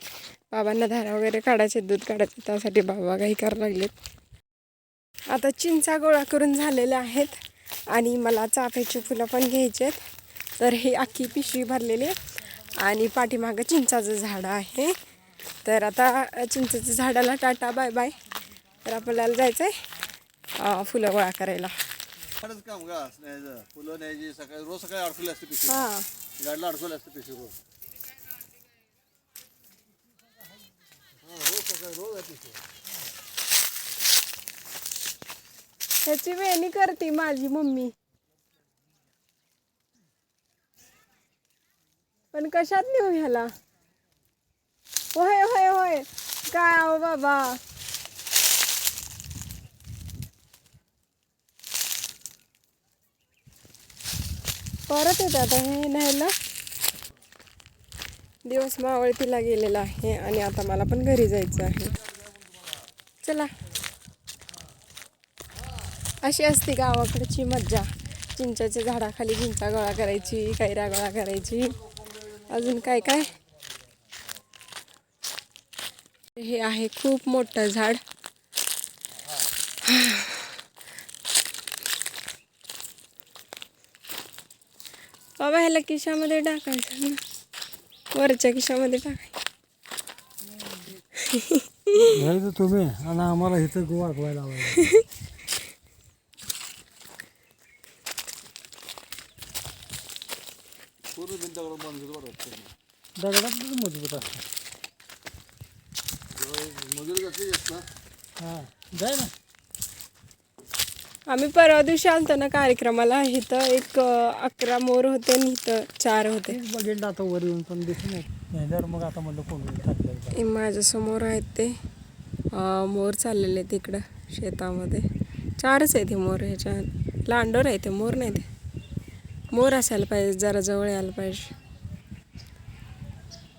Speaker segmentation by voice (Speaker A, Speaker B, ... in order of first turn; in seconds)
Speaker A: 0.5-4.0, 5.3-7.4, 7.9-10.0, 10.6-15.0, 15.6-18.2, 18.8-19.9, 20.5-21.8, 25.7-26.1, 36.0-38.0, 42.3-43.5, 45.1-47.6, 54.9-56.3, 58.5-62.0, 63.2-63.5, 66.2-71.8, 72.5-73.3, 76.3-78.0, 79.8-80.6, 85.4-87.2, 88.1-89.4, 91.2-92.1, 111.3-116.6, 120.3-121.8, 122.5-125.1, 125.6-128.5, 129.5-131.5
Speaker B: 22.3-27.6, 31.2-32.6, 79.2-79.5, 101.1-102.7, 106.3-107.9
Speaker C: 90.5-91.0, 92.1-94.9, 103.2-104.5, 108.4-109.3, 116.5-120.4